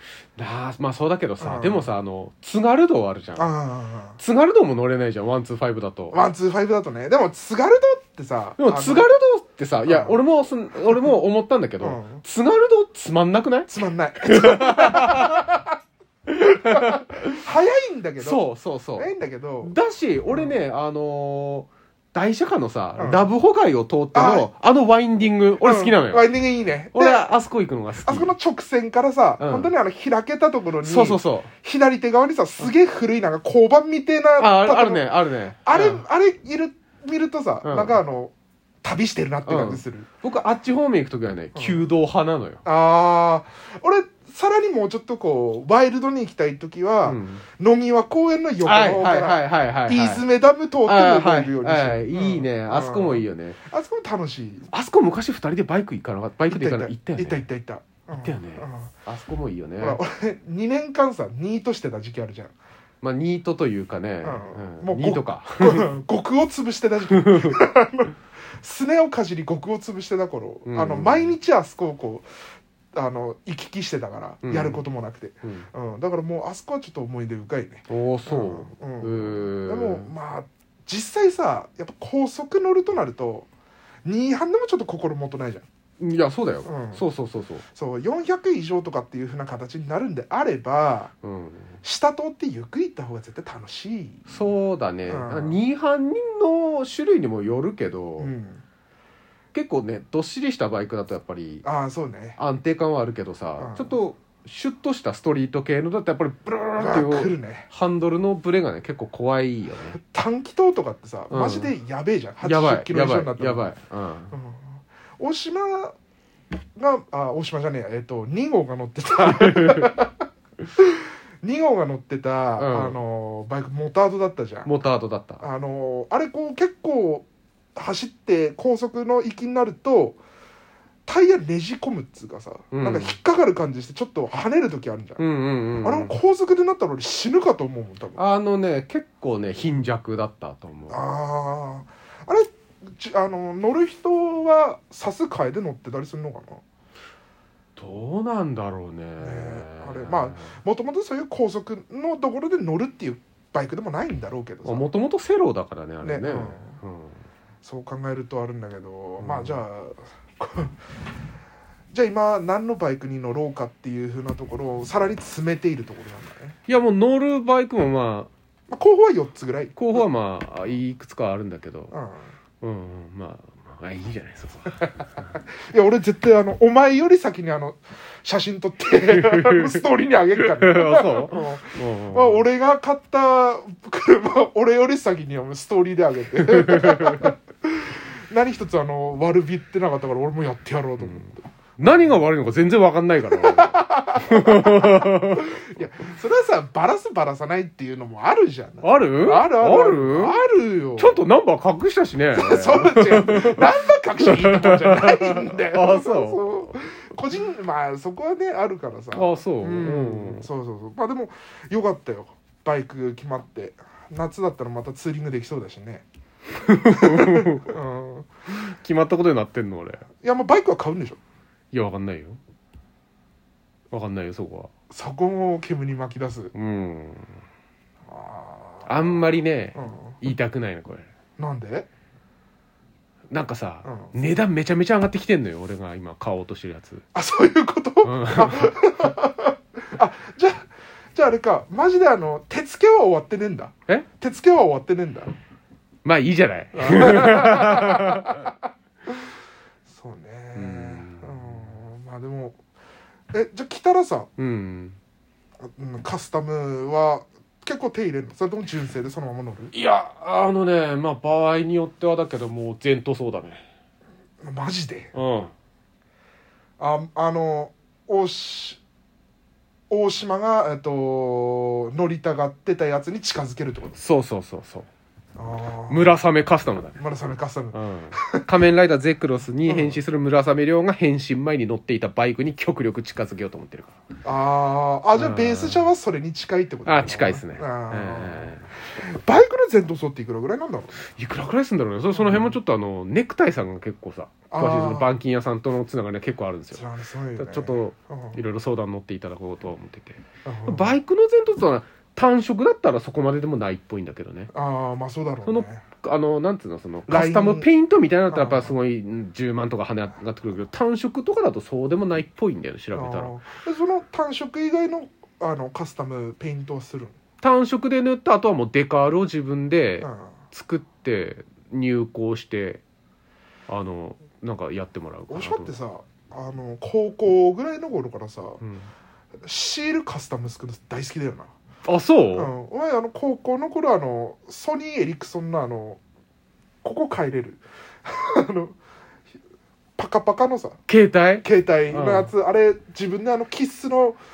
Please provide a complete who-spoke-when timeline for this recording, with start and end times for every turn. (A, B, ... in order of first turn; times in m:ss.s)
0:00.4-0:03.5 A
0:01.4-0:01.9 B
0:03.4-0:04.2 B
0:04.2-0:06.2 A
0:06.1-0:09.1 B
0:08.6-0:13.7 A
0:09.9-0:10.2 B
0:11.8-0:12.2 B
0:13.7-0:15.7 B
0:14.2-0:15.5 A
0:16.3-0:17.4 A
0:16.7-0:18.4 B
0:18.2-0:26.3 A
0:19.0-0:19.7 B
0:20.3-0:20.5 B
0:23.0-0:23.3 B
0:24.1-0:24.5 B
0:25.6-0:27.2 B
0:26.9-0:28.3 A
0:28.0-0:35.1 B
0:29.4-0:29.7 A
0:30.8-0:31.5 A
0:34.4-0:36.0 A
0:35.6-0:40.1 B
0:37.6-0:38.0 A
0:39.4-0:42.6 A
0:41.5-0:41.9 B
0:42.6-0:54.7 B
0:47.0-0:47.4 A
0:48.6-0:50.2 A
0:50.8-0:53.6 A
0:54.7-0:57.4 A
0:56.5-0:58.9 B
0:58.1-1:00.0 A
0:59.8-1:02.5 B
1:03.0-1:05.9 A
1:04.2-1:12.2 B
1:07.1-1:07.6 A
1:10.6-1:11.3 A
1:12.9-1:23.5 B
1:14.4-1:14.8 A
1:17.9-1:20.1 A
1:24.0-1:25.6 B
1:26.0-1:27.6 A
1:26.6-1:27.0 B
1:27.7-1:31.1 B
1:31.2-1:31.7 A
1:31.8-1:34.3 B
1:34.3-1:38.3 A
1:35.1-1:35.6 B
1:38.2-1:38.6 B
1:39.5-1:41.6 A
1:41.6-1:42.4 B
1:42.4-1:50.0 A
1:43.6-1:44.0 B
1:46.8-1:47.7 B
1:50.0-1:53.7 B
1:51.3-1:51.7 A
1:52.4-1:54.3 A
1:54.3-1:56.0 B
1:56.8-2:00.1 B
1:59.2-1:59.9 A
2:00.8-2:04.7 B
2:02.6-2:03.0 A
2:04.6-2:05.4 A
2:05.4-2:10.2 B
2:11.0-2:15.2 B
2:12.7-2:13.1 A
2:15.2-2:16.2 A
2:15.8-2:18.2 B
2:18.2-2:21.0 A
2:20.9-2:26.6 B
2:27.8-2:30.5 A
2:29.2-2:34.9 B
2:34.6-2:37.2 A
2:36.0-2:36.8 B
2:37.6-2:41.1 B
2:39.2-2:39.6 A
2:41.9-2:46.6 B
2:46.7-2:48.3 A
2:48.7-2:50.0 B
2:49.8-2:51.9 A
2:51.9-2:52.3 B
2:52.6-2:54.8 A
2:55.6-3:11.4 B
2:59.0-2:59.8 A
3:00.4-3:02.4 A
3:06.6-3:07.3 A
3:11.8-3:15.8 A
3:13.3-3:21.2 B
3:18.8-3:20.4 A
3:21.0-3:26.6 A
3:22.3-3:36.0 B
3:29.1-3:30.5 A
3:36.6-3:37.7 A
3:36.9-3:38.3 B
3:38.5-3:40.0 A
3:40.2-3:41.2 B
3:41.7-3:42.4 A
3:43.9-3:44.7 A
3:44.9-3:46.5 B
3:46.5-3:47.3 A
3:48.1-3:50.2 B
3:48.8-3:51.1 A
3:51.4-3:51.9 B
3:53.3-3:57.0 A
3:53.8-3:54.1 B
3:57.1-4:05.3 B
3:58.0-3:58.7 A
4:06.0-4:08.5 A
4:06.7-4:08.5 B
4:09.9-4:12.6 B
4:10.5-4:11.7 A
4:13.3-4:14.3 B
4:14.4-4:15.0 A
4:15.6-4:19.7 B
4:19.7-4:23.6 A
4:24.4-4:25.1 B
4:25.1-4:25.5 A
4:26.8-4:28.8 B
4:29.9-4:34.0 B
4:34.0-4:34.9 A
4:35.4-4:36.2 B
4:35.9-4:37.0 A
4:37.0-4:38.4 B
4:37.7-4:43.9 A
4:39.6-4:40.0 B
4:44.2-4:51.0 B
4:45.2-4:45.9 A
4:46.8-4:48.7 A
4:51.1-4:56.8 A
4:52.1-4:52.6 B
4:54.5-4:55.1 B
4:56.7-4:58.4 B
4:57.4-5:04.5 A
5:00.4-5:01.0 B
5:04.5-5:05.8 B
5:05.4-5:13.4 A
5:07.1-5:07.7 B
5:08.3-5:08.7 B
5:12.9-5:17.1 B
5:17.4-5:22.8 A
5:20.0-5:20.3 B
5:23.7-5:25.7 A
5:25.3-5:28.6 B
5:28.6-5:28.9 A
5:29.4-5:31.5 B
5:31.8-5:32.5 A
5:32.4-5:36.0 B
5:36.8-5:38.8 B
5:40.0-5:40.8 B
5:40.9-5:42.3 A
5:41.4-5:44.2 B